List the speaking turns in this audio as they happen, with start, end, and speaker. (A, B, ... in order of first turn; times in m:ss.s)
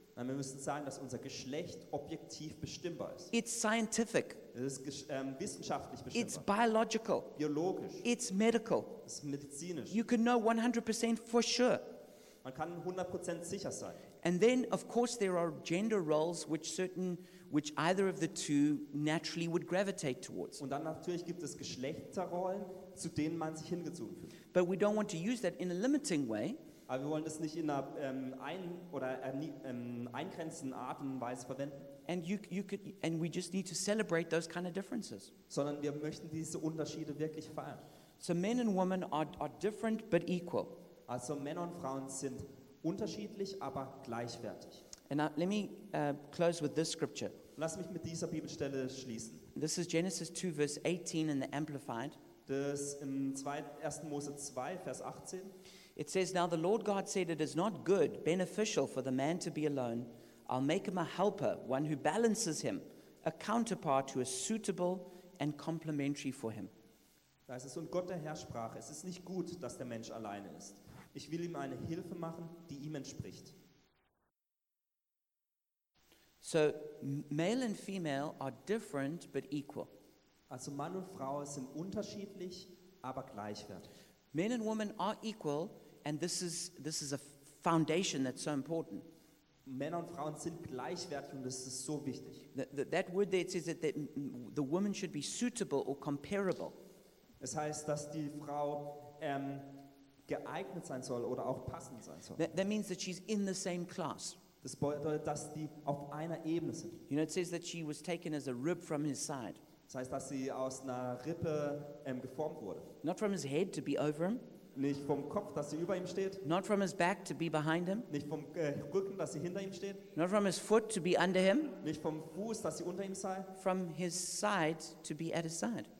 0:00.2-0:03.3 A
0:03.3-0:04.4 B
0:04.5-0:06.5 A
0:06.1-0:07.3 B
0:07.3-0:08.1 A
0:08.0-0:09.0 B
0:09.0-0:10.0 A
0:09.9-0:11.8 B
0:12.4-0:14.0 A
0:14.2-0:20.6 B
0:20.6-0:24.4 A
0:24.5-0:26.6 B
0:26.9-0:31.9 A
0:32.0-0:35.3 B
0:35.5-0:37.8 A
0:38.2-0:40.8 B
0:41.1-0:44.8 A
0:45.1-0:47.4 B
0:47.6-0:49.5 A
0:49.5-0:52.2 B
0:52.5-0:55.5 A
0:56.0-1:06.7 B
1:07.5-1:13.5 A
1:16.4-1:19.9 B
1:20.5-1:23.9 A
1:24.3-1:29.0 B
1:29.6-1:32.5 A
1:32.5-1:36.7 B
1:37.4-1:42.5 A
1:42.4-1:44.4 B
1:44.6-1:47.0 A
1:47.1-1:49.6 B
1:49.9-1:52.9 A
1:53.0-1:54.4 B
1:54.7-1:56.4 A
1:56.4-1:58.1 B
1:58.1-2:00.0 A
2:00.1-2:01.8 B
2:01.8-2:03.5 A
2:03.6-2:05.9 B